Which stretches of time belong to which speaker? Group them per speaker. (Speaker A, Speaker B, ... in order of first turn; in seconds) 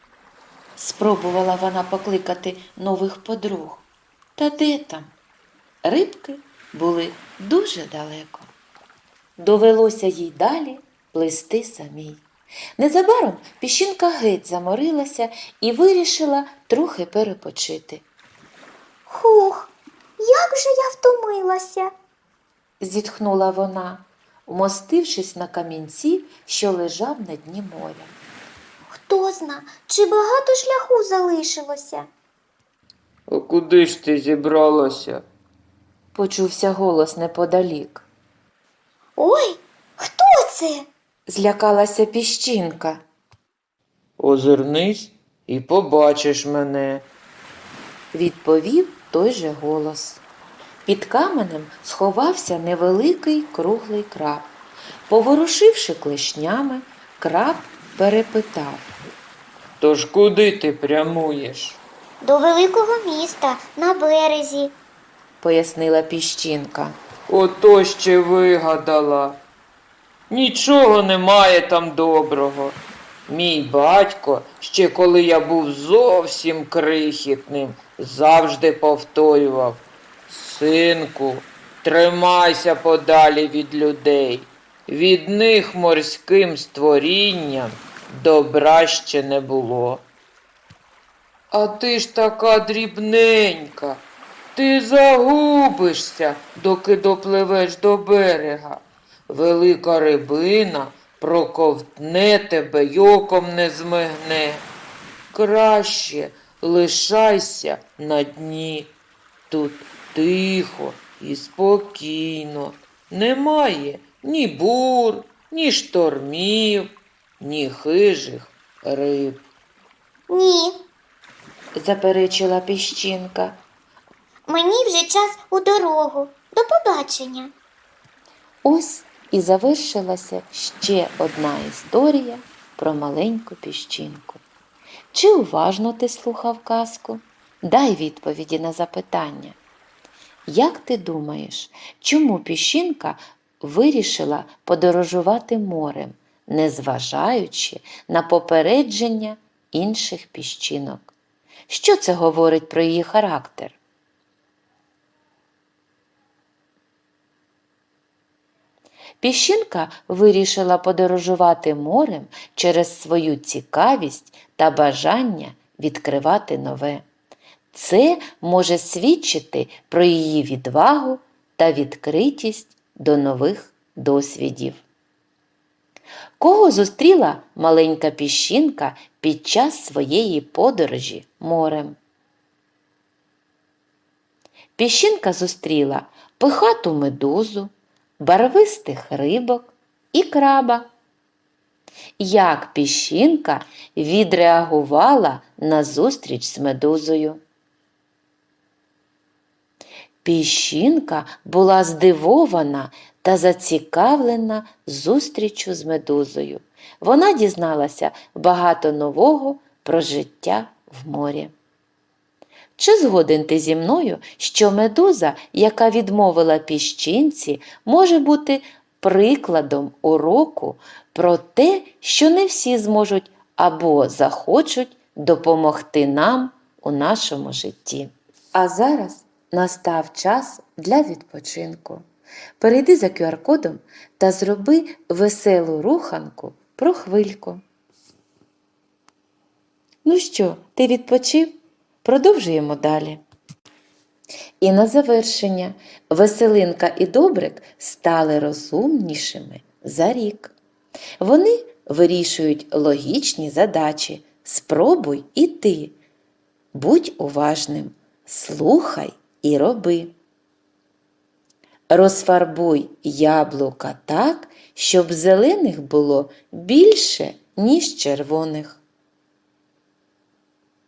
Speaker A: 0.8-3.9, 4.4-5.1, 5.8-8.5, 9.4-12.2, 12.8-18.0, 22.8-28.1, 36.1-38.0, 41.3-43.0, 48.1-50.2, 50.9-54.5, 55.1-58.9, 65.4-67.0, 121.8-123.6, 128.6-134.4, 135.1-139.6, 140.5-151.1, 151.7-153.8, 159.2-167.0, 167.7-174.8, 176.4-182.0, 184.8-190.9, 192.2-197.4, 200.2-211.5, 212.8-232.0, 232.6-237.6, 240.0-243.2, 244.6-250.5, 251.2-255.9, 256.7-260.1, 261.9-268.8
Speaker B: 19.1-21.9, 28.9-32.1, 39.2-40.8, 62.2-64.7, 120.3-120.8, 124.5-127.5
Speaker C: 33.3-35.2, 44.2-47.0, 59.8-61.8, 67.3-69.4, 70.3-90.0, 91.5-94.0, 94.5-104.6, 105.3-108.9, 109.5-119.4